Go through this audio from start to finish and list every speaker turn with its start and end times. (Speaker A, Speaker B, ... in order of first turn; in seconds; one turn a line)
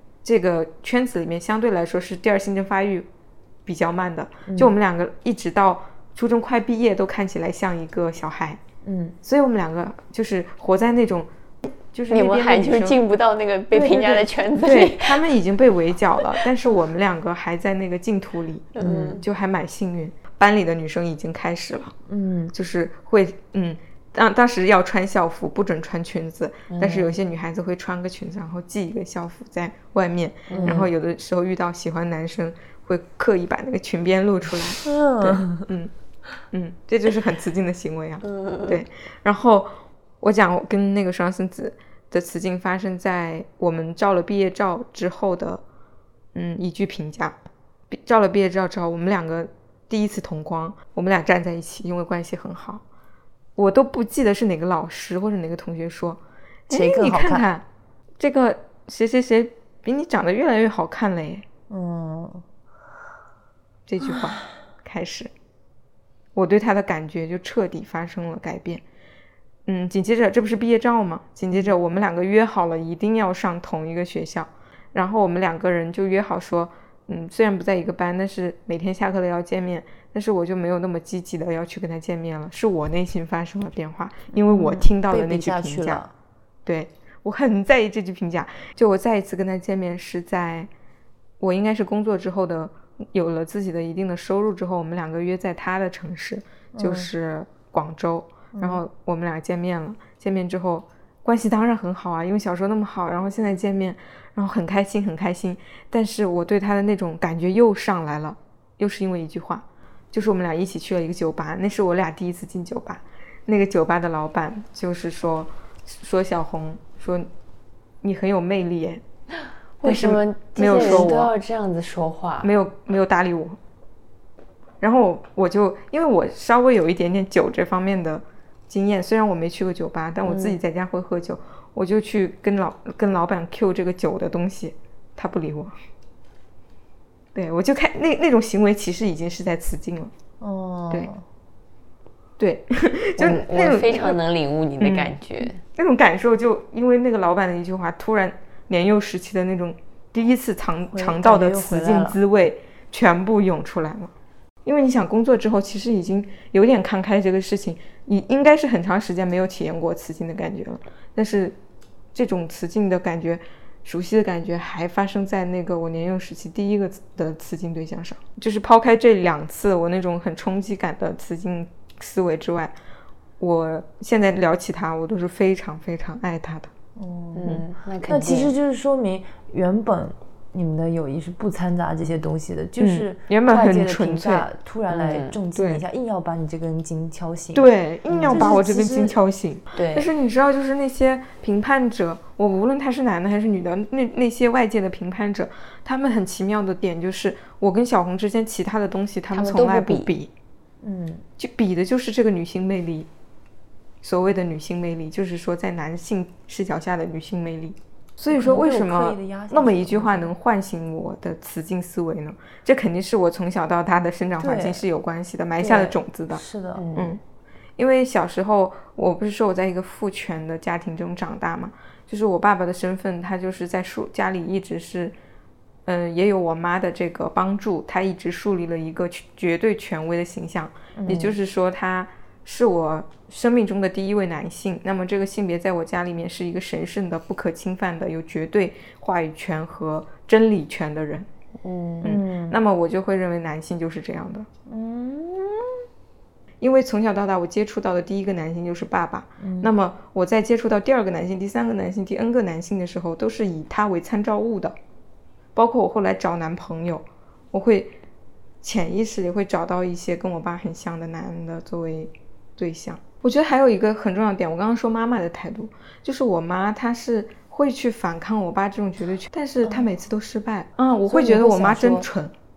Speaker A: 0.2-3.1
Speaker A: 3.7-8.6
Speaker B: 4.5-4.8
Speaker B: 8.8-9.2
Speaker A: 9.2-11.3
Speaker A: 11.9-13.0
Speaker C: 12.1-15.3
Speaker B: 13.7-14.3
Speaker A: 14.6-21.9
Speaker C: 18.8-19.2
Speaker B: 22.1-22.5
Speaker A: 22.5-35.9
Speaker C: 26.7-27.1
Speaker C: 30.5-30.8
Speaker B: 30.6-30.9
Speaker B: 34.8-35.6
Speaker A: 36.5-45.6
Speaker C: 38.3-38.8
Speaker A: 46.3-47.4
Speaker A: 47.9-52.8
Speaker A: 53.6-57.6
Speaker B: 56.7-57.5
Speaker A: 58.2-61.5
Speaker B: 61.7-62.4
Speaker A: 63.9-65.3
Speaker A: 66.3-68.8
Speaker A: 69.7-86.0
Speaker B: 84.5-86.1
Speaker A: 86.7-90.7
Speaker A: 91.4-117.3
Speaker B: 96.7-97.1
Speaker B: 98.5-98.8
Speaker A: 118.0-119.0
Speaker C: 119.8-122.5
Speaker A: 119.8-121.3
Speaker B: 120.7-121.1
Speaker A: 122.4-123.6
Speaker A: 124.8-135.8
Speaker C: 130.2-130.6
Speaker A: 137.3-140.1
Speaker B: 140.4-141.2
Speaker A: 142.4-144.2
Speaker C: 143.2-145.6
Speaker A: 144.8-145.1
Speaker A: 145.7-154.1
Speaker B: 150.9-152.2
Speaker A: 154.7-161.6
Speaker A: 162.1-172.8
Speaker A: 173.4-176.7
Speaker B: 177.0-187.7
Speaker C: 177.3-178.5
Speaker A: 182.8-184.5
Speaker C: 184.9-185.4
Speaker A: 185.6-185.8
Speaker A: 187.5-200.3
Speaker C: 188.1-188.6
Speaker B: 188.3-189.2
Speaker C: 189.8-190.1
Speaker C: 199.3-200.1
Speaker B: 200.8-201.2
Speaker A: 201.4-203.1
Speaker A: 204.0-216.4
Speaker B: 208.3-210.3
Speaker B: 214.4-214.8
Speaker B: 215.6-216.9
Speaker C: 216.8-217.2
Speaker A: 217.8-225.1
Speaker A: 225.9-241.3
Speaker B: 230.9-231.4
Speaker C: 241.6-242.1
Speaker A: 242.0-244.5
Speaker B: 242.0-242.6
Speaker B: 244.7-245.7
Speaker A: 246.6-254.8
Speaker B: 249.4-249.7
Speaker A: 255.6-257.9
Speaker A: 258.6-272.3
Speaker B: 271.1-272.1